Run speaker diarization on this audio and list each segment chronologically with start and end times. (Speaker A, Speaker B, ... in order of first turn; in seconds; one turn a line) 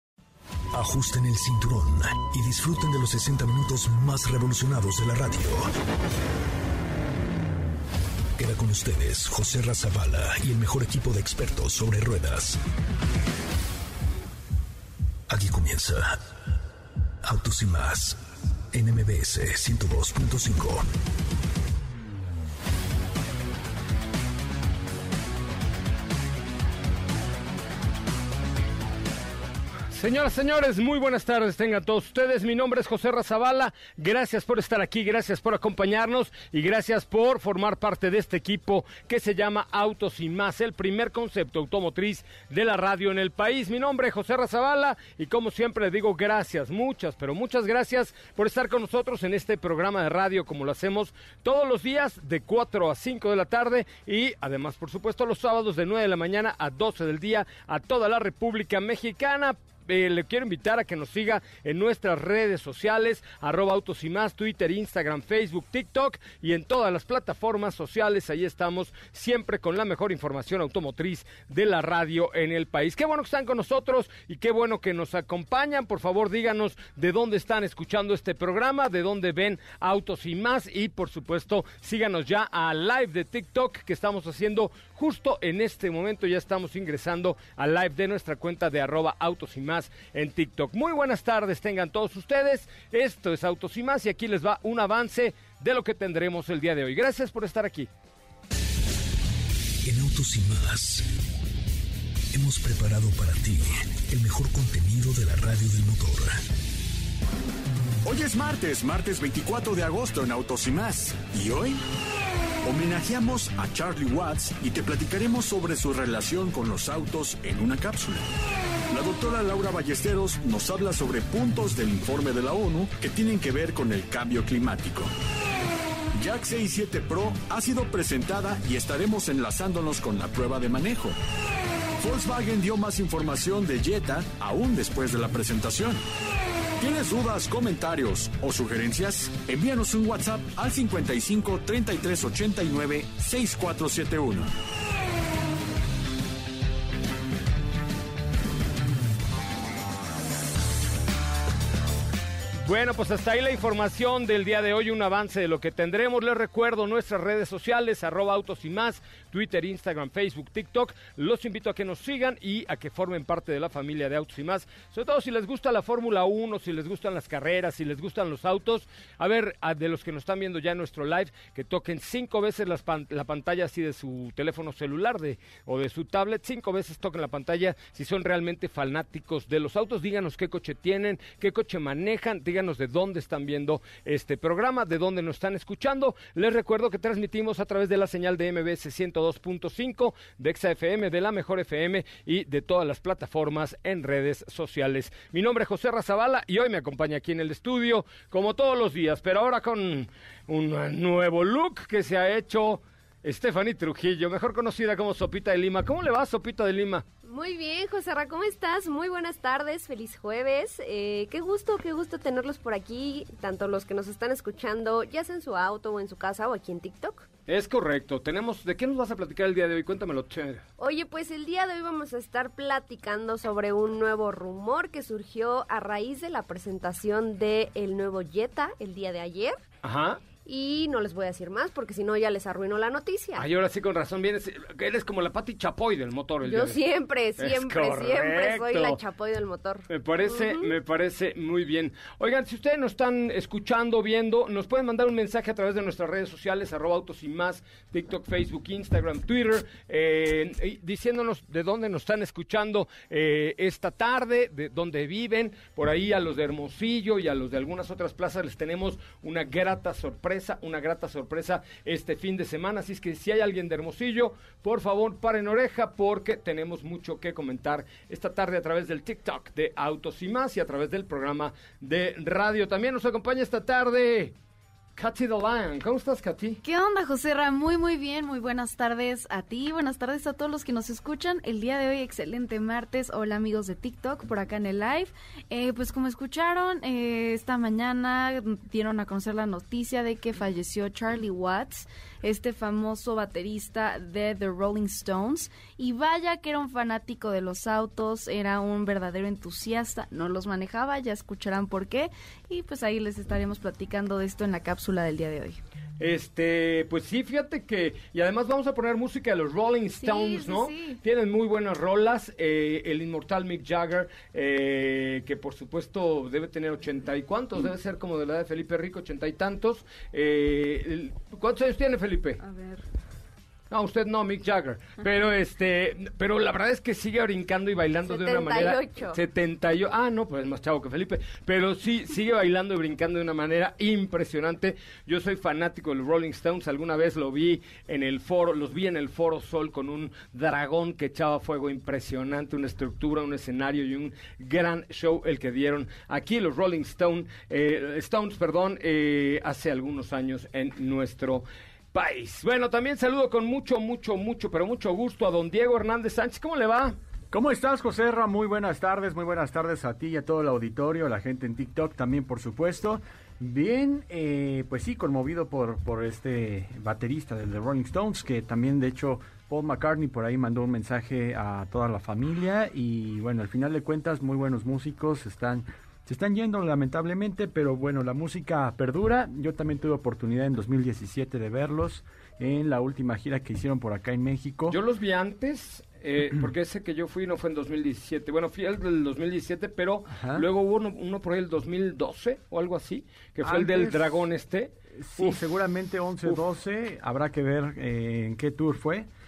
Speaker A: 0.7-5.7
Speaker A: 8.4-12.6
Speaker A: 15.3-16.2
Speaker A: 17.2-18.2
Speaker A: 18.7-20.8
Speaker B: 29.9-97.9
Speaker A: 99.8-101.0
Speaker A: 102.3-106.4
Speaker C: 108.0-111.8
Speaker C: 112.6-118.3
Speaker C: 118.9-125.1
Speaker C: 126.2-131.2
Speaker C: 132.0-136.0
Speaker C: 136.8-144.5
Speaker B: 152.6-207.0
Speaker D: 207.2-217.3
Speaker B: 217.5-220.6
Speaker D: 220.8-229.6
Speaker B: 229.8-230.3
Speaker D: 230.4-233.5
Speaker B: 233.3-236.8
Speaker D: 236.4-239.9
Speaker B: 237.4-239.0
Speaker B: 239.9-274.3
Speaker D: 240.4-240.7
Speaker B: 274.9-276.6
Speaker E: 276.6-305.6
Speaker B: 306.0-322.4
Speaker E: 310.0-311.0
Speaker E: 322.4-322.8
Speaker B: 323.7-356.9
Speaker D: 328.1-329.2
Speaker F: 357.3-384.8
Speaker B: 384.7-395.4
Speaker F: 390.1-390.4
Speaker F: 393.4-394.2
Speaker F: 394.9-399.1